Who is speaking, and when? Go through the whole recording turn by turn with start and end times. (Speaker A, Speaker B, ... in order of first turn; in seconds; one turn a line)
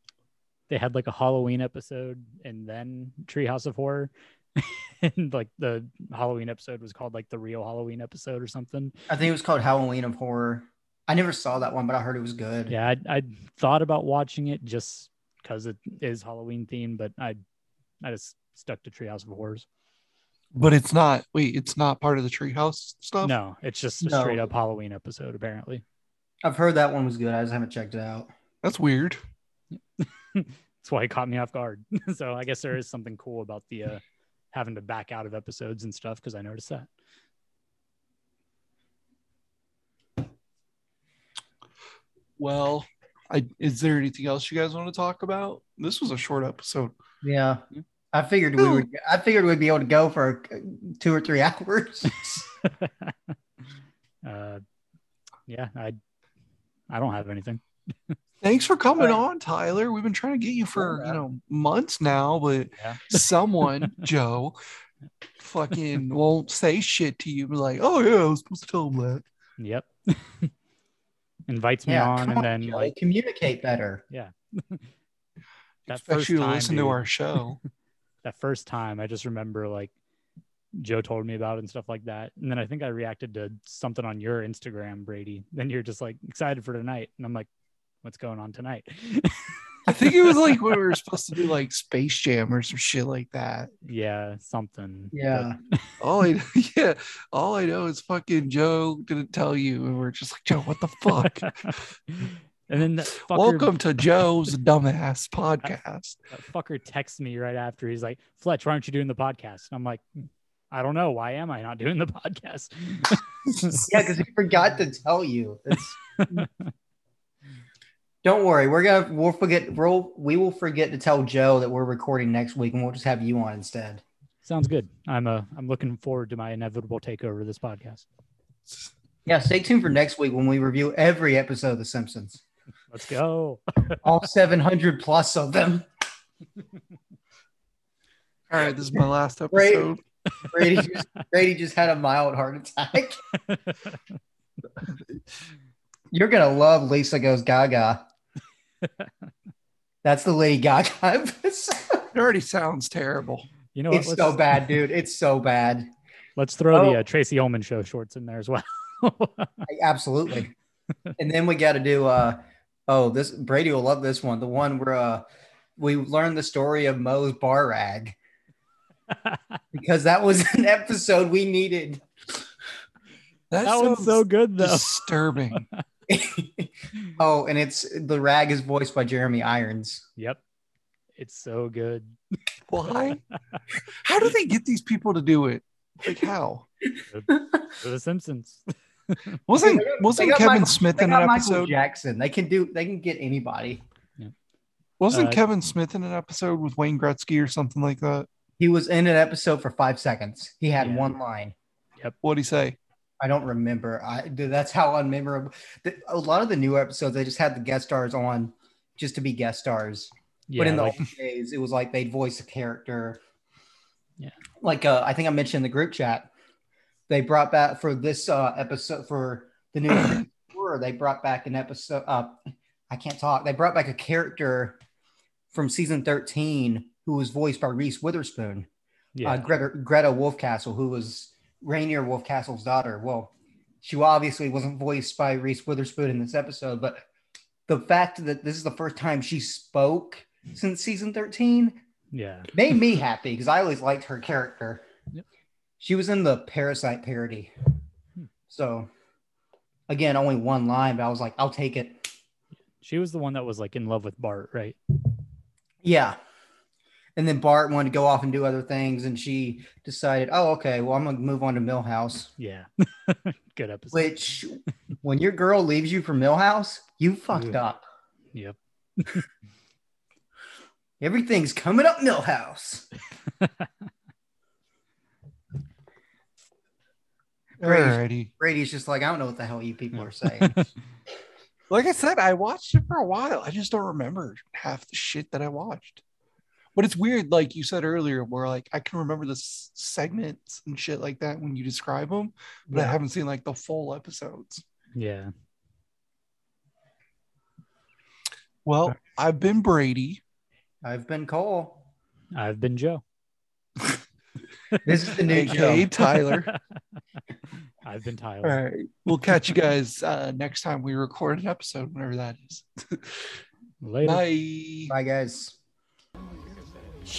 Speaker A: 0.7-8.9
Speaker B: 9.1-12.7
Speaker A: 12.7-17.4
Speaker A: 18.0-19.7
Speaker C: 20.5-23.3
Speaker A: 23.2-25.8
Speaker B: 24.0-24.5
Speaker B: 26.4-28.3
Speaker C: 28.6-29.2
Speaker A: 30.0-36.9
Speaker C: 42.4-46.9
Speaker B: 47.2-52.5
Speaker C: 48.6-48.9
Speaker A: 52.7-53.1
Speaker A: 54.2-54.6
Speaker A: 55.5-56.0
Speaker A: 56.9-58.2
Speaker C: 58.4-64.6
Speaker B: 60.8-61.2
Speaker A: 62.8-63.2
Speaker C: 65.4-69.3
Speaker A: 69.6-70.5
Speaker A: 71.5-72.9
Speaker B: 71.9-74.0
Speaker A: 74.1-74.9
Speaker C: 75.9-77.6
Speaker A: 75.9-77.1
Speaker A: 78.2-79.9
Speaker A: 80.8-87.5
Speaker A: 88.0-90.7
Speaker C: 89.9-93.7
Speaker A: 93.8-95.8
Speaker B: 95.1-95.6
Speaker C: 96.0-101.8
Speaker A: 101.2-103.8
Speaker C: 103.2-106.2
Speaker A: 106.3-110.0
Speaker A: 110.7-114.0
Speaker B: 113.7-116.5
Speaker A: 116.3-116.7
Speaker B: 118.2-124.0
Speaker A: 124.5-128.1
Speaker B: 129.3-132.4
Speaker A: 132.9-134.1
Speaker B: 134.0-135.9
Speaker C: 138.5-140.0
Speaker B: 139.5-139.9
Speaker A: 140.4-140.9
Speaker B: 140.5-143.2
Speaker A: 143.4-144.0
Speaker B: 146.1-148.1
Speaker A: 148.8-149.1
Speaker B: 150.0-152.1
Speaker C: 152.1-153.5
Speaker A: 153.7-154.6
Speaker B: 153.9-155.9
Speaker A: 156.4-159.7
Speaker B: 156.7-157.0
Speaker B: 159.7-160.5
Speaker B: 161.2-165.2
Speaker B: 165.8-168.2
Speaker A: 169.1-169.4
Speaker B: 169.7-172.0
Speaker C: 173.5-175.7
Speaker A: 173.6-175.0
Speaker B: 176.1-180.1
Speaker A: 181.2-182.2
Speaker C: 182.7-183.2
Speaker C: 184.0-186.7
Speaker A: 187.1-189.4
Speaker B: 187.3-187.7
Speaker C: 189.5-191.7
Speaker B: 189.6-193.8
Speaker C: 195.0-198.3
Speaker A: 195.1-195.4
Speaker B: 198.6-201.5
Speaker A: 200.8-201.1
Speaker C: 202.2-202.8
Speaker B: 203.2-213.2
Speaker A: 210.5-211.0
Speaker B: 214.6-216.3
Speaker B: 217.1-224.8
Speaker B: 225.5-228.7
Speaker A: 229.2-229.5
Speaker B: 229.2-237.0
Speaker B: 237.7-241.8
Speaker A: 242.1-242.5
Speaker B: 242.5-244.8
Speaker B: 245.8-247.5
Speaker B: 248.5-248.9
Speaker B: 249.9-252.1
Speaker A: 252.8-254.8
Speaker B: 255.8-256.2
Speaker B: 257.2-262.3
Speaker A: 262.4-264.0
Speaker B: 263.9-267.8
Speaker A: 267.3-267.6
Speaker A: 268.3-269.3
Speaker B: 271.0-272.9
Speaker A: 273.4-273.7
Speaker C: 277.6-278.3
Speaker B: 277.6-280.6
Speaker A: 280.4-280.7
Speaker C: 281.7-286.0
Speaker C: 286.8-294.6
Speaker B: 292.7-293.0
Speaker A: 294.9-295.3
Speaker C: 298.6-300.2
Speaker B: 300.8-301.9
Speaker A: 302.3-303.0
Speaker B: 304.8-305.9
Speaker C: 305.3-306.5
Speaker A: 305.5-306.6
Speaker A: 307.8-308.6
Speaker C: 308.4-313.3
Speaker A: 313.8-314.2
Speaker C: 314.1-314.9
Speaker B: 314.9-315.6